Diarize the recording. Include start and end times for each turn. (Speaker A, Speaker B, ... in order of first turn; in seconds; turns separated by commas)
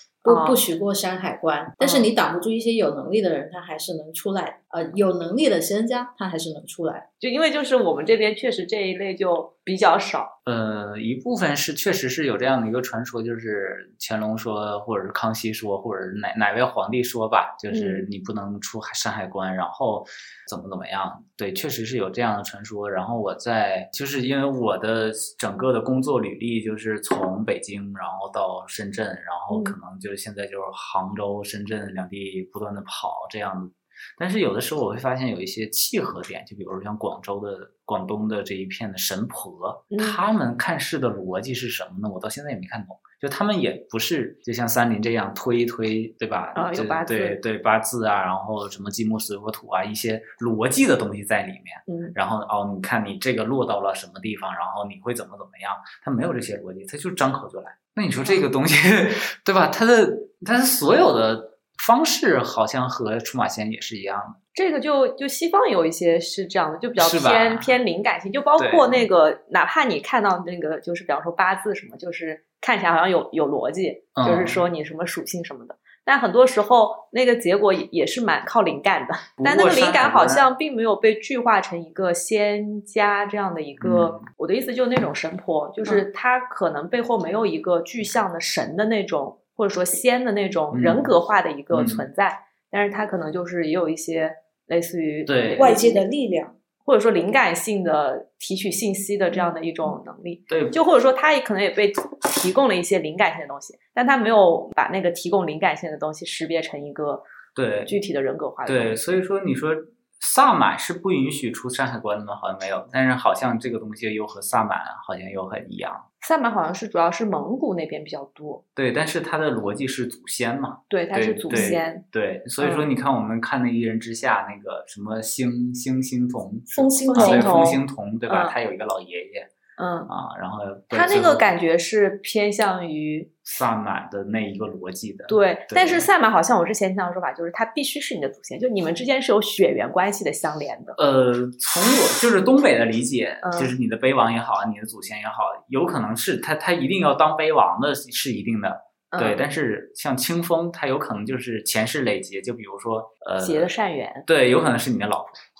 Speaker A: 0.2-7.1, Speaker B: 0.3-0.6, Speaker B: 1.8-2.1, Speaker B: 7.2-10.3, Speaker C: 10.5-64.4, Speaker B: 17.7-18.1, Speaker B: 29.5-29.8, Speaker B: 39.9-40.2, Speaker B: 46.5-47.4, Speaker B: 51.9-52.1, Speaker B: 64.5-96.0, Speaker C: 67.0-67.8, Speaker C: 68.6-69.1, Speaker C: 74.2-74.6, Speaker C: 79.4-80.5, Speaker C: 83.8-84.2, Speaker C: 90.7-91.1, Speaker C: 91.7-92.1, Speaker C: 95.3-95.8, Speaker A: 95.6-96.6, Speaker B: 96.8-107.2, Speaker C: 100.5-100.8, Speaker C: 107.5-108.0, Speaker B: 107.9-109.1, Speaker C: 108.7-116.1, Speaker B: 116.2-118.6, Speaker C: 118.8-129.5, Speaker B: 120.9-122.0, Speaker B: 122.6-122.9, Speaker A: 126.7-127.8, Speaker B: 127.1-128.6, Speaker B: 129.8-130.1, Speaker C: 130.1-131.5, Speaker B: 130.9-133.3, Speaker C: 133.4-136.1, Speaker B: 135.3-141.0, Speaker C: 141.0-153.7, Speaker B: 143.4-143.7, Speaker B: 149.1-149.4, Speaker B: 153.4-154.3, Speaker C: 154.3-155.4